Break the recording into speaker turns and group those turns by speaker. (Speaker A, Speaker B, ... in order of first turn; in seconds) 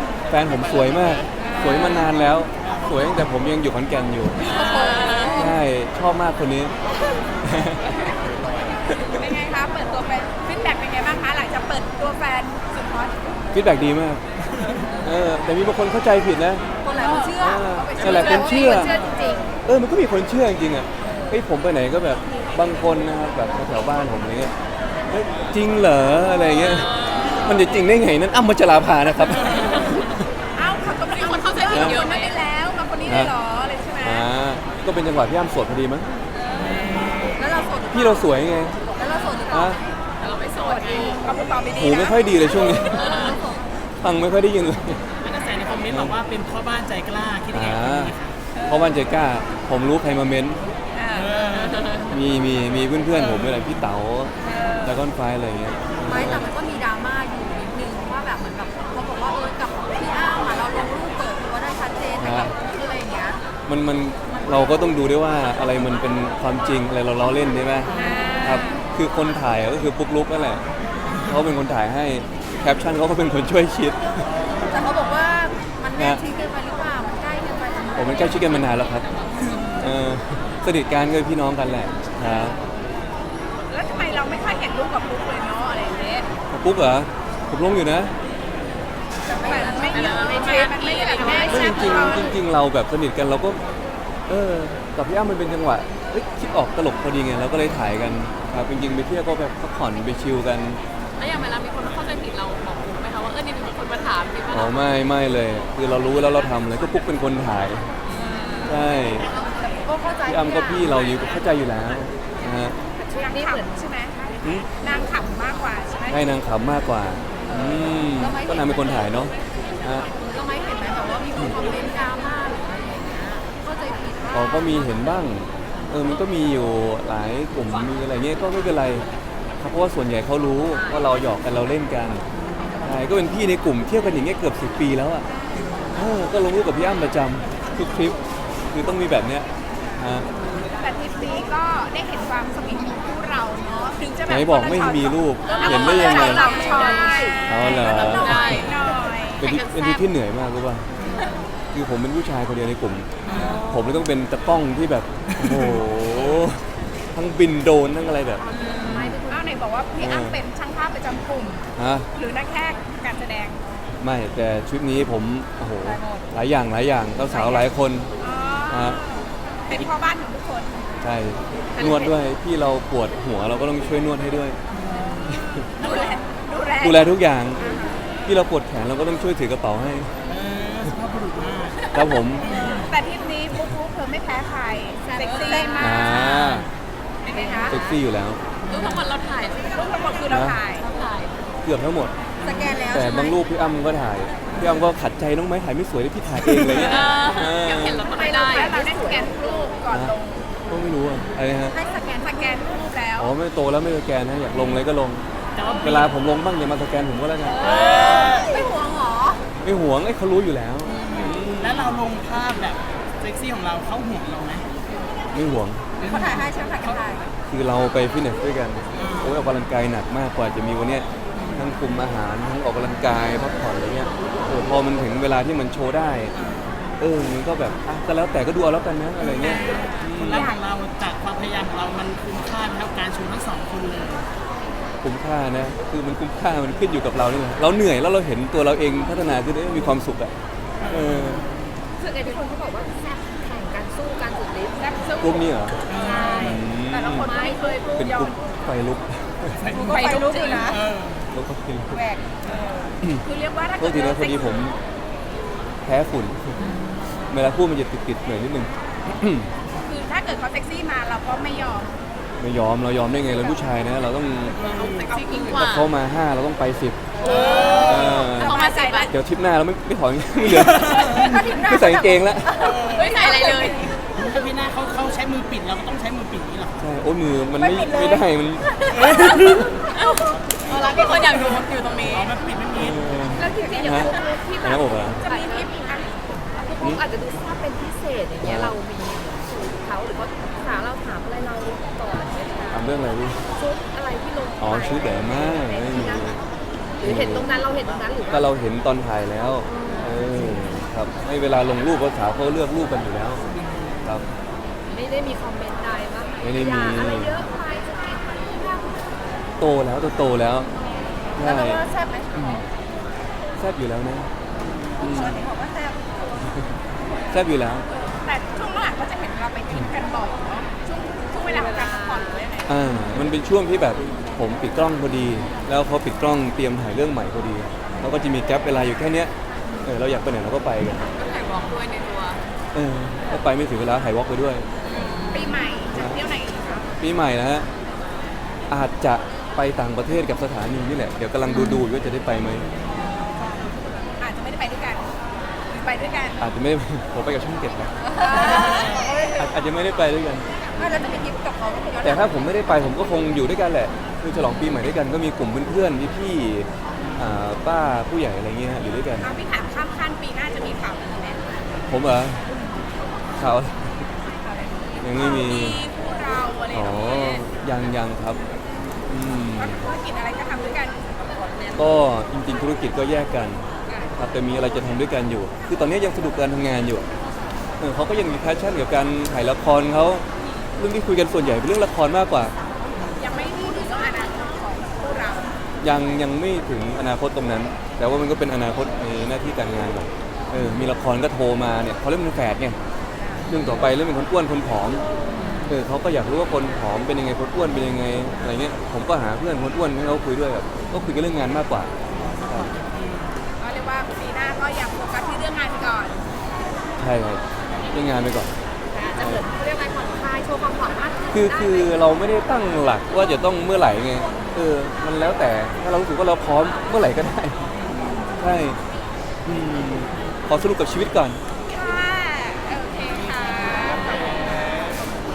Speaker A: 0.3-4.5, 5.2-6.7, 7.4-7.9, 13.5-14.2, 15.0-16.6, 17.4-18.9, 19.6-24.5, 25.1-30.2, 31.7-32.0, 33.0-33.3, 34.0-36.1, 37.9-38.8, 39.5-39.8, 41.7-43.3, 43.9-45.1, 45.9-46.1, 47.5-48.1, 48.6-50.6, 52.1-56.5, 62.2-62.5, 63.7-70.7, 71.2-74.2, 75.9-76.2, 77.9-82.6, 86.5-88.1, 91.5-93.6, 94.3-100.8, 104.5-107.9, 108.6-109.3, 110.2-112.8, 114.4-114.7, 116.1-120.1, 124.3-129.1, 129.6-132.2, 132.8-135.2, 135.9-138.2, 138.7-139.4, 140.0-140.3, 144.3-146.6, 147.4-148.6, 149.4-150.8, 151.7-159.2, 160.0-160.4, 161.8-162.1, 164.0-168.1, 168.7-169.0, 171.0-174.6, 175.2-175.6, 176.8-177.7, 178.2-180.1, 181.9-182.5, 185.8-186.7, 187.7-188.4, 190.3-190.6, 191.6-192.1, 192.9-198.1, 199.9-200.2, 200.7-201.8, 203.2-205.2, 205.8-207.6, 209.6-212.0, 215.3-215.8, 217.5-226.3, 227.0-230.5, 235.0-240.3, 240.9-241.5, 245.2-247.3, 247.9-249.6, 251.3-252.0, 253.8-254.8, 255.8-256.6, 257.3-259.5, 262.4-264.6, 265.5-267.0, 267.8-268.6, 269.1-272.7, 276.8-279.7, 282.8-285.2, 288.4-288.7, 292.7-293.5, 294.6-296.4, 297.0-297.5, 298.3-303.4, 306.4-307.4, 309.6-310.7, 311.4-311.8, 312.3-312.6, 313.6-314.3, 315.0-315.4, 317.3-317.9, 322.7-331.1, 332.7-334.6, 335.9-336.2, 337.0-337.7, 338.7-342.6, 346.4-347.9, 349.4-350.5, 352.0-359.3, 361.9-362.4, 363.4-364.1, 365.0-365.8, 366.7-368.4, 369.1-369.9, 371.7-377.0, 377.8-380.2, 380.8-382.5, 385.8-392.8, 393.5-395.0, 395.7-401.9, 402.4-402.7, 407.0-408.5, 409.1-409.4, 411.3-417.6, 418.4-418.8, 419.4-421.4
Speaker B: 1.4-2.1, 4.6-5.1, 9.1-13.4, 16.9-18.9, 30.5-34.2, 40.7-43.2, 50.9-51.3, 54.5-54.9, 67.9-68.8, 83.7-86.3, 89.3-92.3, 113.1-114.2, 114.7-116.3, 140.8-149.5, 159.3-163.6, 167.3-167.7, 168.2-170.9, 175.5-178.0, 182.4-186.4, 187.2-187.8, 189.7-190.9, 196.6-197.1, 198.5-200.5, 202.1-203.3, 229.4-230.6, 244.8-248.3, 249.8-250.7, 252.7-254.8, 259.8-262.0, 264.5-265.6, 267.2-269.1, 271.0-271.8, 277.6-278.2, 283.6-284.2, 285.2-286.6, 317.9-322.7, 335.3-336.9, 344.2-345.1, 345.7-346.4, 348.1-349.5, 359.2-361.4, 364.4-367.4, 369.5-371.1, 383.2-385.5, 403.6-406.2, 421.7-424.9
Speaker C: 2.6-2.9, 45.2-48.4, 51.1-52.1, 53.1-53.6, 67.9-68.6, 74.4-74.8, 132.4-132.7, 151.0-151.4, 153.2-153.6, 174.7-175.2, 175.8-176.2, 180.2-182.9, 188.7-189.0, 205.6-206.1, 207.6-208.5, 210.9-214.7, 216.0-217.0, 218.9-219.4, 221.3-221.7, 226.3-226.8, 229.2-234.3, 240.8-241.6, 245.9-246.6, 249.5-249.9, 250.7-251.2, 264.6-265.1, 267.2-267.9, 272.6-273.2, 274.1-276.8, 278.9-279.3, 280.3-283.1, 303.5-303.9, 348.6-348.9, 395.3-395.7, 402.1-403.4
Speaker D: 4.4-5.6, 16.8-19.6, 21.0-21.4, 37.4-39.9, 40.6-41.2, 43.0-43.6, 56.0-63.4, 64.3-64.8, 74.6-78.5, 89.2-91.9, 108.3-111.0, 113.0-113.8, 117.5-119.1, 120.2-124.9, 145.7-147.9, 158.4-159.6, 165.8-166.3, 185.0-186.5, 187.3-188.0, 192.4-193.4, 198.1-199.5, 201.7-202.5, 207.5-209.4, 216.0-217.3, 242.0-245.1, 246.0-248.1, 249.7-250.8, 251.9-252.5, 271.2-273.9, 278.6-280.0, 280.9-281.4, 283.3-285.7, 286.6-292.9, 293.5-296.4, 297.0-298.5, 299.6-300.2, 304.9-309.0, 311.4-312.6, 315.0-316.4, 348.2-349.4, 350.8-352.3, 408.9-412.0
Speaker E: 4.5-5.3, 18.1-18.9, 26.6-27.5, 31.1-32.4, 40.2-41.2, 42.9-43.4, 51.5-52.0, 89.6-92.1, 101.2-104.8, 108.1-108.7, 145.4-148.8, 149.4-150.0, 153.3-153.9, 158.5-159.1, 171.8-172.1, 188.7-189.8, 190.7-191.3, 196.7-198.7, 265.0-265.9, 267.3-269.1, 272.9-273.9, 279.9-282.3, 321.5-322.3, 331.1-332.4, 334.8-335.6